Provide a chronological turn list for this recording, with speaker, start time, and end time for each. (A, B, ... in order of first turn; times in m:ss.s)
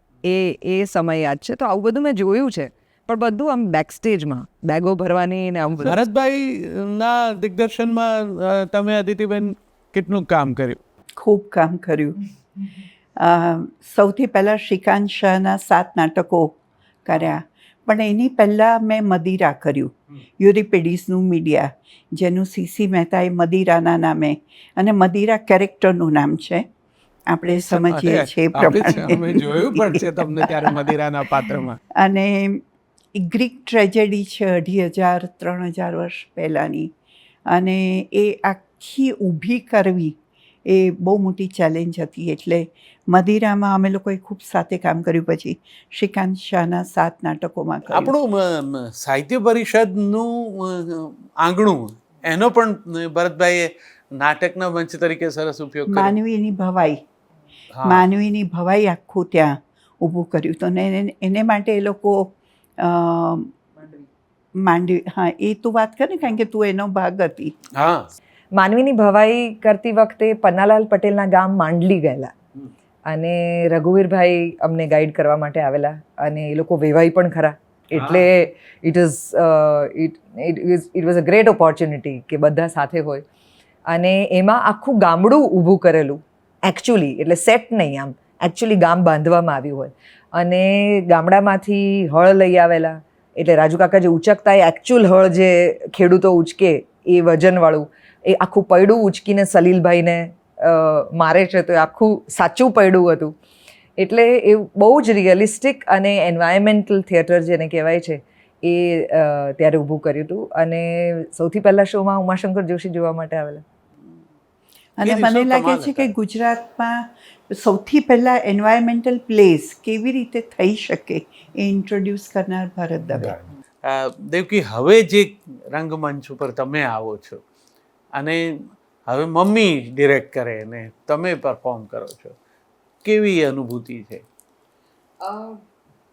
0:00.2-0:06.0 A
0:05.8-0:10.8 B
0:11.2-0:12.2 C
0:13.2-0:16.5 C
0:17.0-0:26.7 C
0:27.3-0:30.8 C
0:27.6-0:31.8 B
0:31.9-0:32.6 C
0:33.1-0:36.9 C
0:37.5-0:48.1 C
0:47.9-0:56.1 B
0:55.9-0:57.0 C
0:57.7-0:58.0 B
0:57.8-1:03.5 C
1:04.6-1:07.5 C
1:07.7-1:08.1 B
1:08.5-1:12.3 A
1:13.1-1:23.2 A
1:18.0-1:18.2 B
1:23.9-1:43.3 A
1:44.0-1:53.6 A
1:55.0-2:03.3 C
1:55.0-1:56.1 B
2:03.1-2:07.4 B
2:08.2-2:08.4 B
2:09.1-2:12.4 B
2:13.0-2:14.2 B
2:15.2-2:15.6 A